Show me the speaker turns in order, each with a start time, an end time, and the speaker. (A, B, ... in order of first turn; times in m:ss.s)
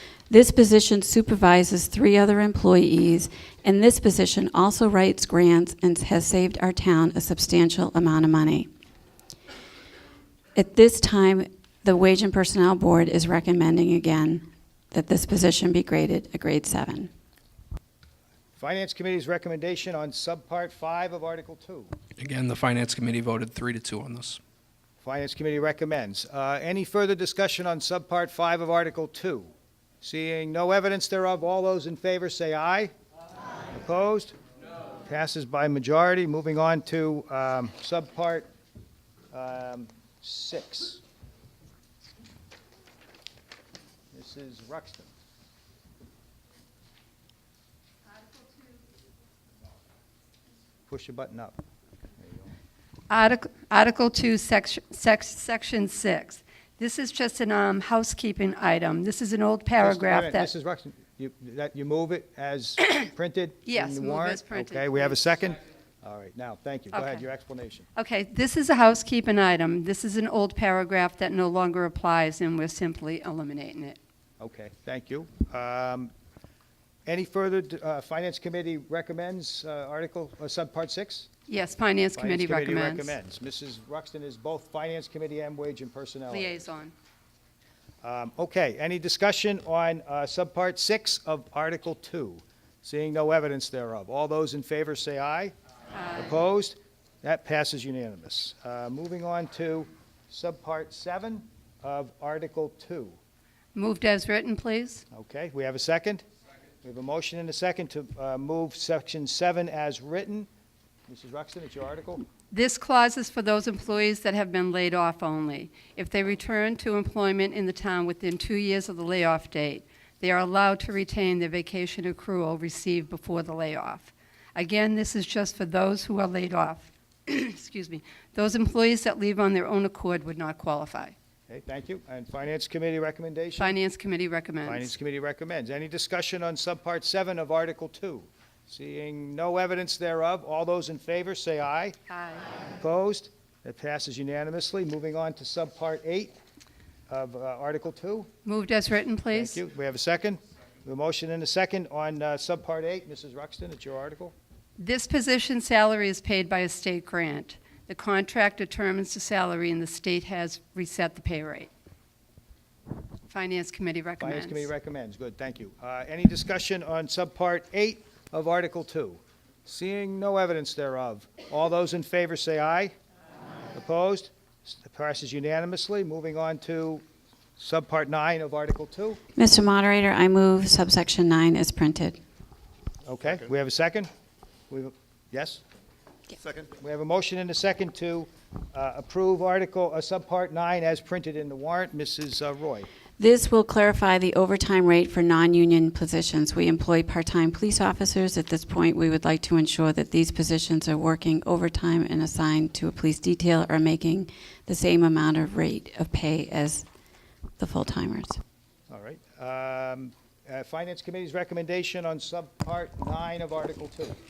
0:00.3-0:08.7 A
0:10.6-0:17.1 A
0:18.6-0:21.9 B
0:22.2-0:24.4 C
0:25.0-0:29.5 B
0:30.0-0:32.9 B
0:33.7-0:34.4 B
0:35.0-0:38.5 B
0:39.3-0:41.0 B
0:44.1-0:45.1 B
0:50.9-0:51.6 B
0:52.2-0:52.5 B
0:53.1-1:00.5 D
0:59.8-1:07.9 B
1:03.7-1:05.2 D
1:06.9-1:07.2 D
1:08.0-1:14.0 D
1:14.4-1:16.1 B
1:17.1-1:21.3 B
1:21.5-1:23.2 D
1:22.2-1:26.7 B
1:26.3-1:26.9 D
1:28.0-1:35.5 B
1:36.2-1:43.2 B
1:43.8-1:45.0 D
1:45.1-1:46.2 B
1:46.8-1:50.5 B
1:51.1-1:52.3 B
1:52.5-2:11.2 D
2:11.5-2:13.8 B
2:13.6-2:14.9 D
2:14.6-2:22.0 B
2:22.1-2:22.5 D
2:22.8-2:26.4 B
2:27.1-2:28.3 B
2:28.4-2:29.6 D
2:29.3-2:34.3 B
2:34.8-2:41.7 D
2:43.3-2:44.7 D
2:44.2-2:52.9 B
2:53.7-2:57.0 B
2:57.6-2:59.2 B
2:59.4-3:02.2 A
3:03.0-3:04.1 B
3:04.7-3:05.6 B
3:06.8-3:12.9 B
3:13.2-3:26.8 A
3:27.6-3:28.4 A
3:28.9-3:34.2 B